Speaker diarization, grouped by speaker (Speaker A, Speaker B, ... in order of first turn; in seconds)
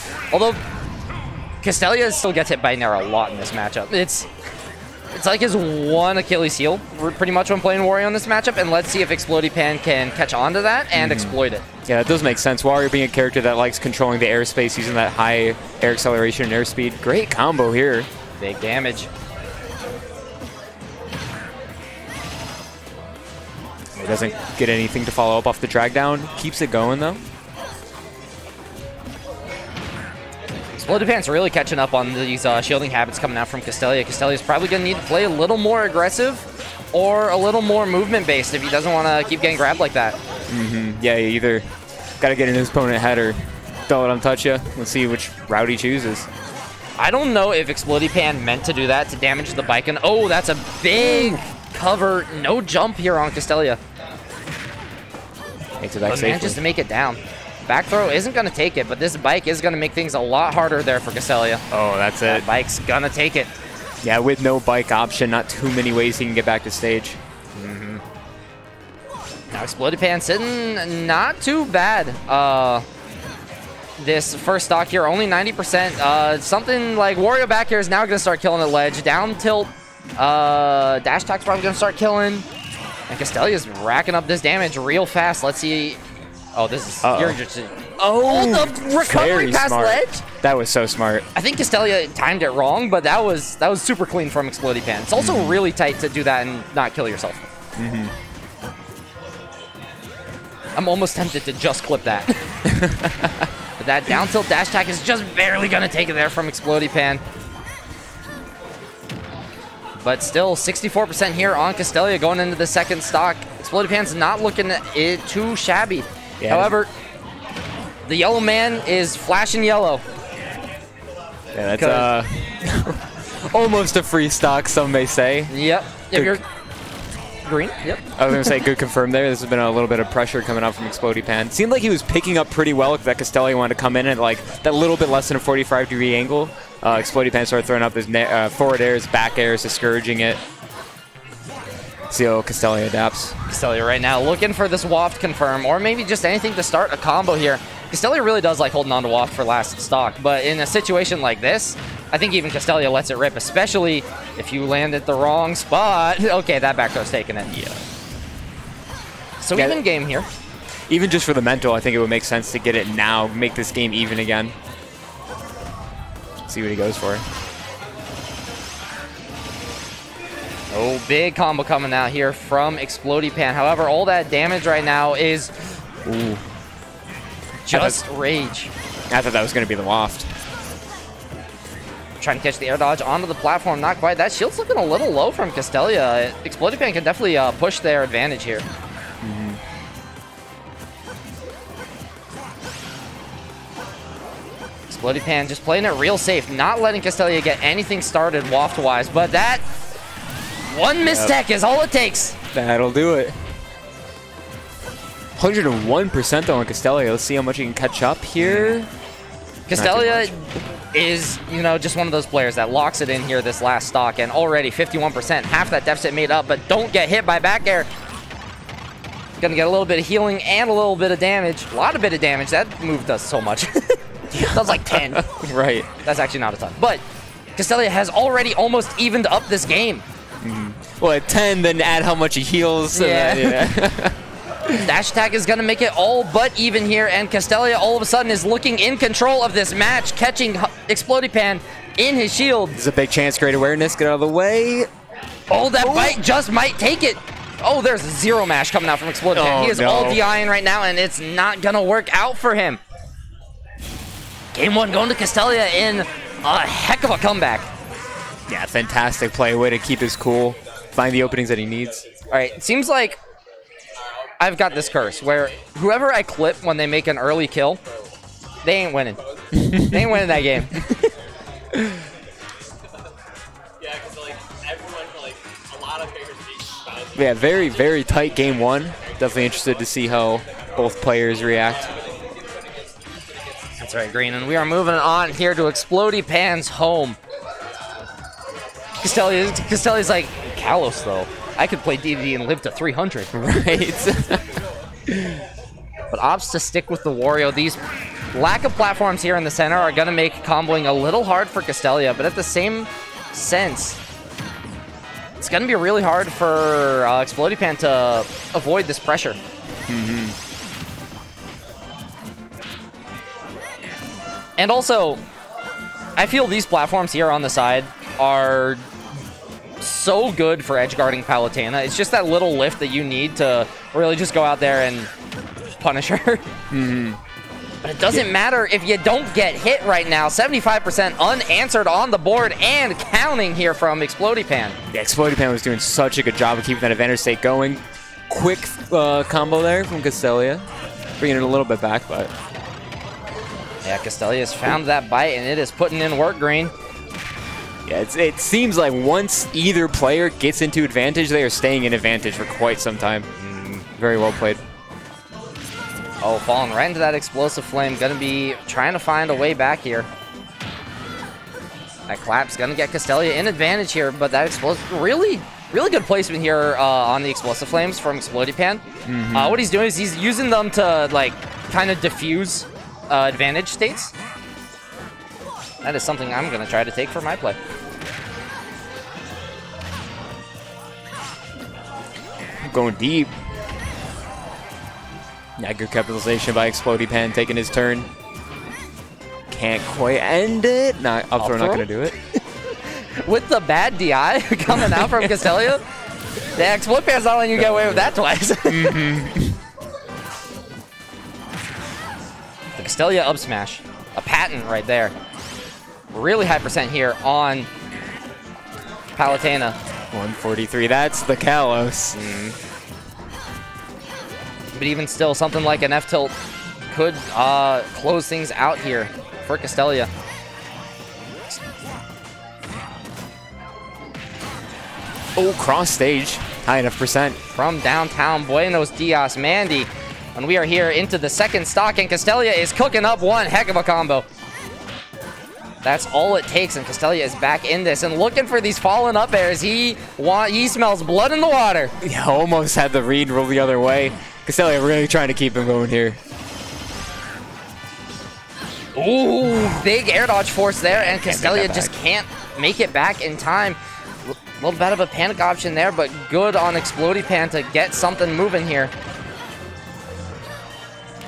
Speaker A: 0.3-0.6, 1.6-4.3, 5.1-11.6, 18.4-19.1, 30.8-40.2, 47.0-53.8, 56.0-61.6, 62.2-63.5, 67.5-68.0, 69.5-72.8, 74.0-82.5, 83.1-86.0, 86.5-90.2, 91.3-97.4, 100.8-102.3, 103.8-107.2, 110.0-116.9, 118.0-120.0, 121.8-122.1, 125.5-126.4, 127.4-128.5, 143.5-157.5, 159.4-160.3, 170.7-175.5, 177.7-178.7, 182.2-188.6, 194.9-199.6, 200.7-202.4, 208.4-208.8, 209.7-217.9, 219.4-225.2, 226.0-227.0, 227.6-230.0, 232.9-233.7, 234.8-242.8, 245.5-252.8, 254.5-257.7, 262.3-263.2, 264.4-267.8, 268.6-269.2, 269.7-270.9, 283.8-287.2, 289.0-293.3, 296.1-297.8, 298.3-304.0, 305.4-309.4, 314.6-315.2, 316.2-318.8, 319.8-325.1, 325.8-326.4, 327.8-334.8, 343.8-346.7, 353.4-353.8, 356.2-360.1, 362.1-374.1, 375.8-377.6, 391.4-391.9, 392.8-395.8, 396.6-399.0, 402.8-405.1, 406.1-407.7, 409.2-409.8, 412.1-412.6, 414.7-416.3, 416.9-420.1, 427.5-434.2, 435.8-441.9, 448.9-458.9
Speaker B: 10.9-18.1, 23.9-27.2, 40.5-41.6, 42.2-46.3, 51.0-51.4, 55.8-56.6, 61.7-62.4, 64.0-67.2, 87.0-87.4, 88.0-91.2, 95.2-95.6, 97.8-98.1, 102.7-103.4, 116.4-116.7, 121.5-125.5, 128.2-140.4, 142.1-143.4, 157.5-157.8, 159.5-159.8, 160.9-164.5, 166.5-167.2, 176.1-176.4, 177.7-178.0, 179.1-180.3, 189.2-189.6, 201.0-201.3, 202.5-203.3, 205.4-208.9, 209.7-210.3, 224.3-225.9, 230.4-234.2, 242.8-244.9, 245.6-246.2, 249.3-250.2, 258.5-262.0, 269.5-269.9, 277.1-281.9, 293.3-294.4, 309.9-310.4, 326.7-327.2, 334.9-340.6, 341.2-342.3, 347.9-353.3, 353.9-354.6, 369.1-369.6, 382.6-383.3, 385.6-388.1, 389.5-392.2, 394.7-395.4, 397.6-398.1, 398.7-399.6, 410.1-412.2, 425.4-427.4, 442.0-446.2, 450.9-451.9